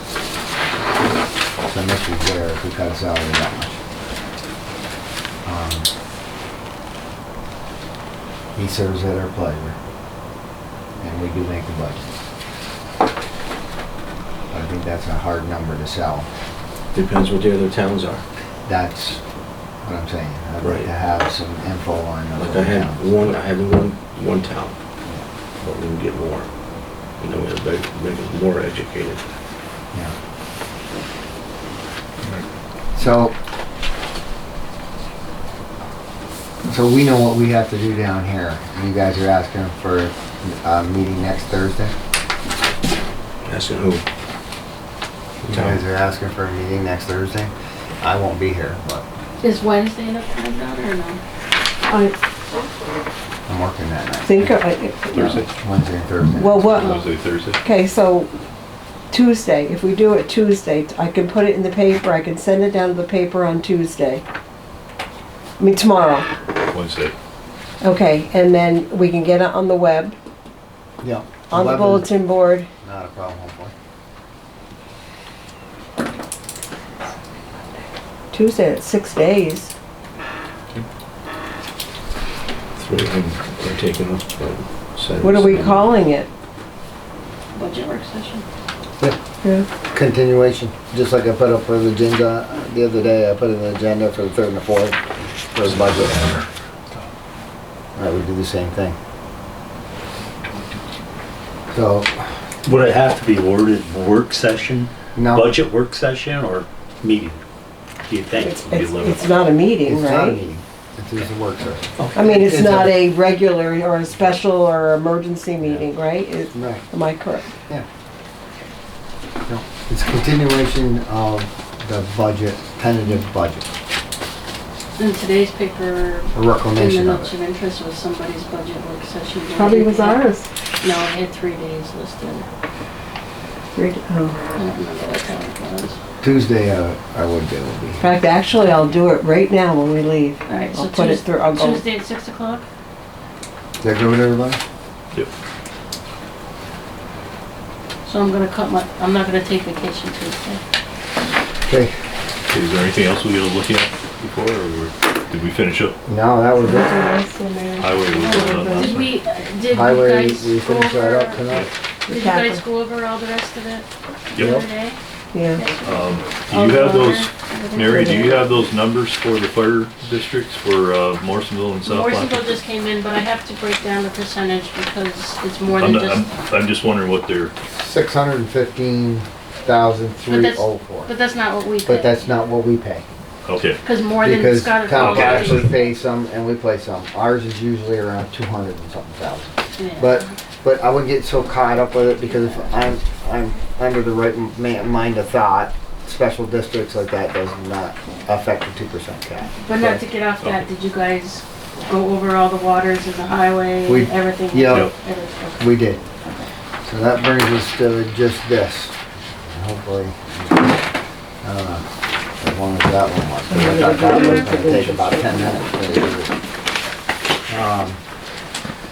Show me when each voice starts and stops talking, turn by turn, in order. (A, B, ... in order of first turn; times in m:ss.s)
0:01.6-0:03.8 A
0:05.4-0:05.9 A
0:08.6-0:09.8 A
0:11.0-0:12.0 A
0:14.5-0:16.3 A
0:16.9-0:18.2 B
0:18.7-0:19.2 A
0:19.8-0:23.1 A
0:20.6-0:20.9 B
0:22.3-0:24.8 B
0:25.6-0:26.5 B
0:27.2-0:29.2 B
0:32.9-0:33.3 A
0:36.6-0:41.9 A
0:43.4-0:44.0 B
0:45.4-0:45.8 B
0:45.4-0:49.0 A
0:49.4-0:51.2 C
0:51.9-0:52.1 D
0:53.5-0:54.6 A
0:54.2-0:55.4 D
0:55.1-0:55.5 E
0:55.6-0:56.7 A
0:56.3-0:56.9 D
0:56.7-0:57.6 E
0:56.8-0:57.0 C
0:57.6-0:58.3 D
0:59.1-1:04.2 D
1:05.6-1:06.3 D
1:06.7-1:07.1 E
1:07.8-1:10.2 D
1:11.0-1:12.1 A
1:11.5-1:12.7 D
1:12.8-1:13.7 A
1:18.3-1:19.7 D
1:22.8-1:25.9 B
1:25.2-1:26.3 D
1:27.5-1:28.4 C
1:29.9-1:35.0 A
1:35.5-1:36.4 A
1:38.0-1:39.0 A
1:41.7-1:42.1 A
1:42.6-1:47.4 F
1:45.1-1:45.5 A
1:48.1-1:49.2 F
1:48.4-1:50.4 D
1:49.8-1:52.9 A
1:52.1-1:57.5 D
1:56.5-1:56.8 A
1:59.5-2:03.7 A
2:04.9-2:10.2 C
2:06.3-2:07.3 A
2:09.5-2:10.5 D
2:10.8-2:12.5 C
2:13.7-2:14.4 D
2:14.5-2:16.0 C
2:16.2-2:18.0 A
2:18.0-2:21.8 D
2:20.5-2:22.6 C
2:23.8-2:24.6 A
2:28.0-2:30.6 C
2:31.7-2:31.9 A
2:32.5-2:36.0 E
2:36.1-2:37.1 A
2:36.6-2:39.0 D
2:37.8-2:39.1 E
2:38.2-2:41.4 C
2:39.7-2:41.7 A
2:42.1-2:45.0 C
2:42.1-2:42.6 D
2:44.3-2:44.6 E
2:44.4-2:44.6 A
2:45.3-2:45.6 D
2:45.5-2:48.4 C
2:45.8-2:52.6 E
2:51.8-2:56.3 C
2:55.6-2:57.5 E
2:57.7-3:01.1 A
3:00.2-3:02.3 C
3:01.8-3:03.0 A
3:03.4-3:03.8 E
3:03.8-3:05.8 C
3:04.2-3:20.0 A
3:04.9-3:05.6 E
3:09.8-3:10.3 C
3:19.6-3:26.4 C
3:23.8-3:24.9 A
3:25.6-3:26.0 A
3:26.8-3:28.9 A
3:29.5-3:30.7 A
3:31.4-3:31.8 A
3:32.4-3:36.3 A
3:33.5-3:35.4 D
3:37.5-3:38.0 A